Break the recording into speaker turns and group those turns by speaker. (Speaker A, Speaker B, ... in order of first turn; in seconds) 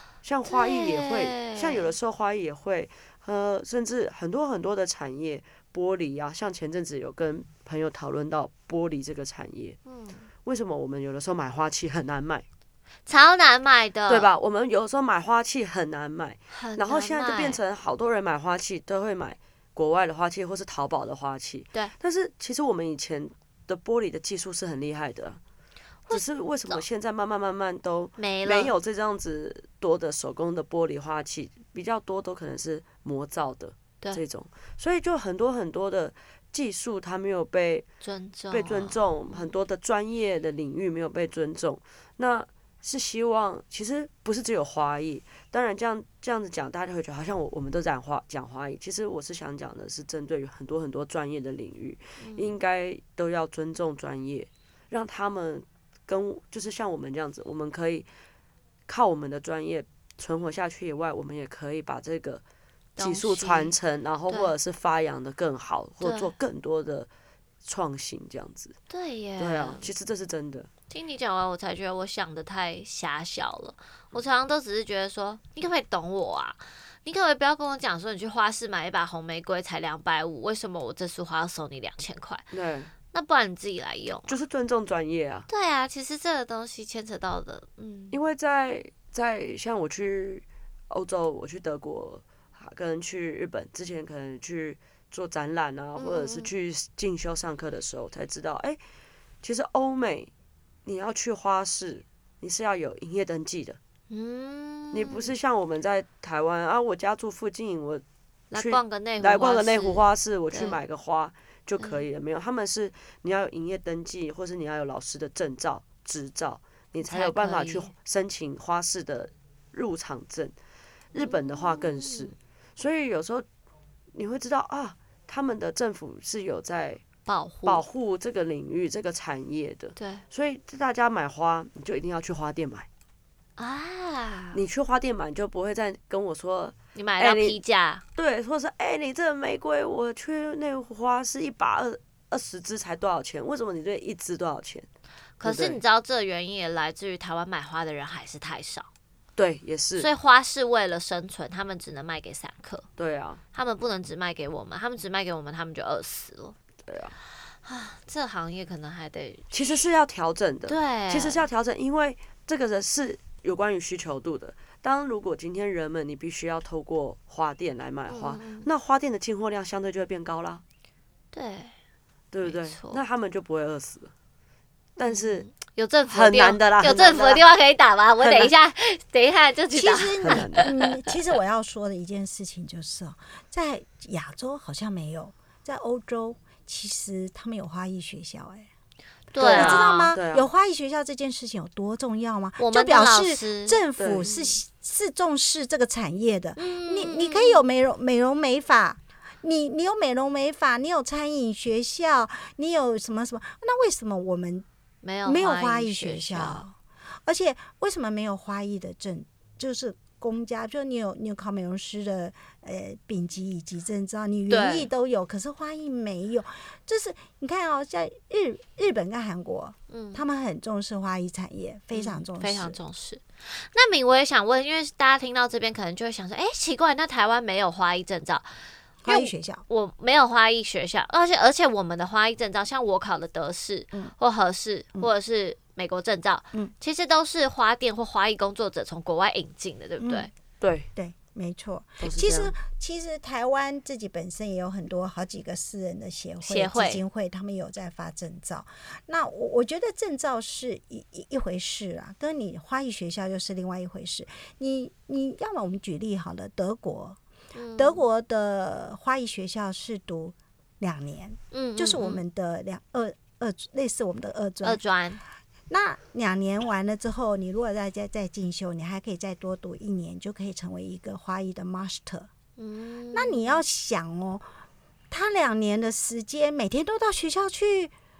Speaker A: 0.2-9.8, 10.4-12.4, 14.1-25.4, 26.1-37.9, 38.5-58.1, 58.9-62.4, 63.0-67.1, 67.6-68.7, 69.4-70.7, 82.5-82.9, 84.3-85.5, 88.1-98.8, 99.4-100.3, 100.8-103.8, 104.9-120.5, 121.1-123.4, 124.1-127.0, 127.7-132.9, 134.5-137.6, 138.1-144.9, 145.4-145.8, 149.3-150.1, 153.0-153.4, 156.9-157.1, 159.5-170.6, 172.3-174.1, 175.0-175.4, 176.1-177.4, 178.2-178.5, 180.2-180.7, 189.4-190.5, 194.0-194.3, 240.6-240.9, 242.0-242.5
Speaker B: 0.5-1.9, 9.8-10.3, 13.1-14.3, 16.5-17.6, 26.1-26.8, 28.2-28.7, 38.0-39.5, 52.2-52.5, 63.0-63.8, 66.0-66.3, 68.9-69.9, 70.9-82.5, 83.1-84.4, 85.5-88.2, 96.0-96.5, 104.1-105.3, 108.5-110.8, 111.8-112.0, 117.0-117.9, 121.2-122.3, 127.2-127.8, 129.9-130.2, 133.6-134.6, 136.9-138.0, 145.4-148.9, 150.0-152.9, 153.5-156.6, 157.6-159.5, 160.7-161.5, 168.1-168.7, 171.3-171.8, 172.4-173.0, 175.0-180.9, 189.3-190.1, 192.6-193.8, 196.6-197.6, 205.0-206.6, 214.5-214.9, 219.9-220.2, 221.9-228.5, 229.1-240.3, 246.4-247.0, 257.5-258.0, 261.5-262.2, 264.6-265.2, 272.6-273.6
Speaker C: 179.7-188.7, 189.3-204.7, 205.2-222.8, 229.0-229.6, 240.0-240.3, 240.9-257.2, 257.8-264.8, 265.7-272.3, 273.1-274.5, 275.1-277.9